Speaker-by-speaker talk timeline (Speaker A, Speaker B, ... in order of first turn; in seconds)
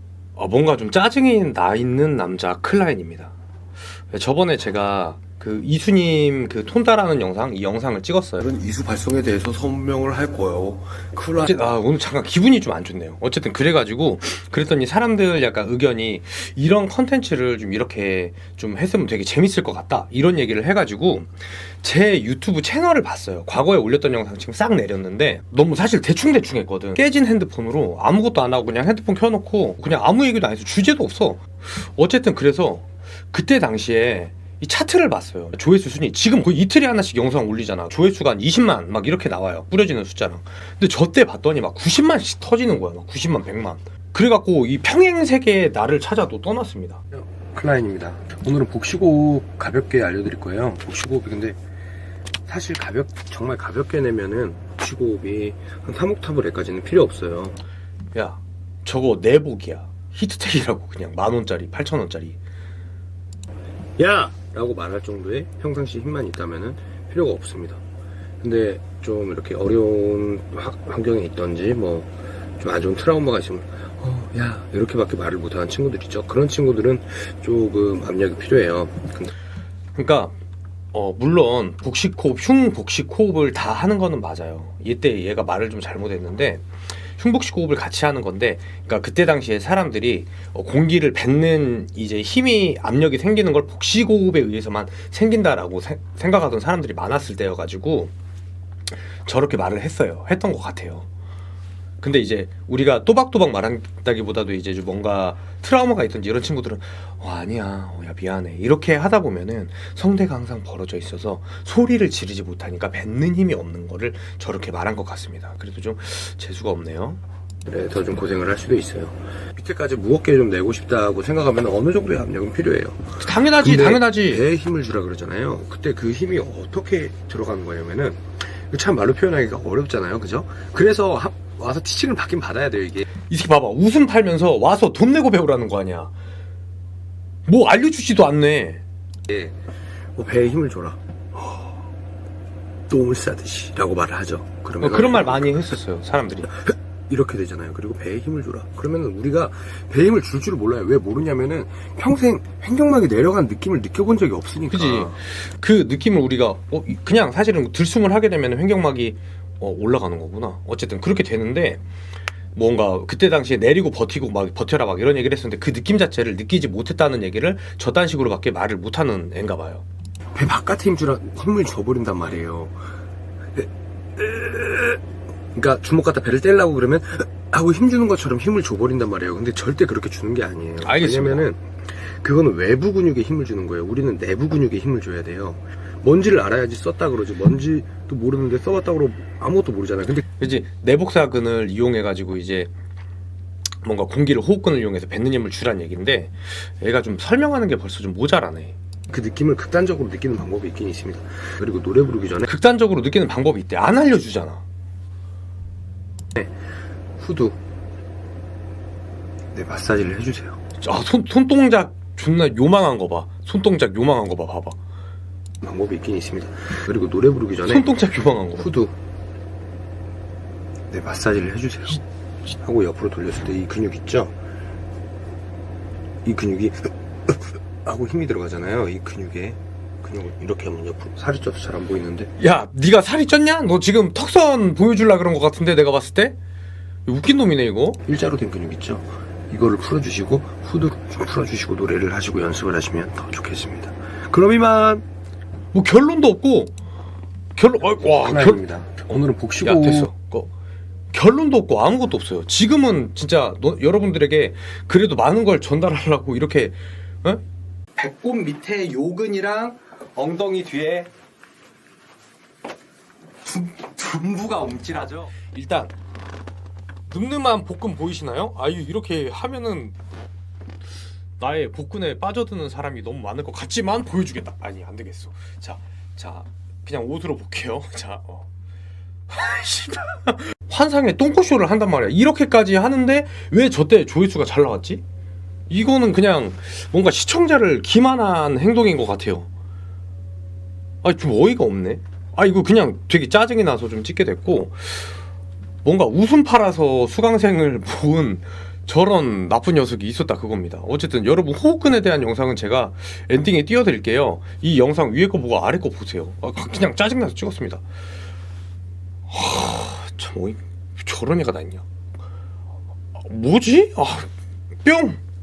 Speaker A: 0.4-3.3, 4.1-8.4, 11.4-47.0, 58.1-62.4, 80.0-80.3, 80.9-98.1, 99.2-101.1, 102.0-117.2, 123.2-124.5, 133.2-136.1, 137.5-138.8, 144.8-146.5, 154.7-161.8, 162.6-169.8, 180.8-181.5, 190.4-192.7, 193.8-198.8, 202.4-204.6, 210.8-214.8, 217.7-218.7, 232.4-236.4, 237.1-238.0, 245.7-246.7, 247.6-248.6, 249.6-250.5, 251.1-257.4, 258.0-261.1, 264.4-265.9, 267.1-269.9, 271.4-278.5, 279.3-285.0, 285.7-289.5, 291.0-295.1, 295.8-307.8, 309.3-311.8, 313.2-314.3, 314.8-315.2
Speaker B: 8.4-11.6, 47.1-51.6, 52.5-57.6, 64.0-67.8, 68.4-79.3, 117.7-133.1, 139.3-139.6, 140.2-141.0, 142.9-145.7, 146.7-155.2, 170.3-172.8, 173.6-175.0, 175.5-190.2, 199.1-202.5, 207.2-207.6, 209.5-210.6, 215.6-217.9, 218.6-218.9, 220.9-224.3, 226.2-232.3, 238.0-245.1, 248.0-250.1, 263.5-265.1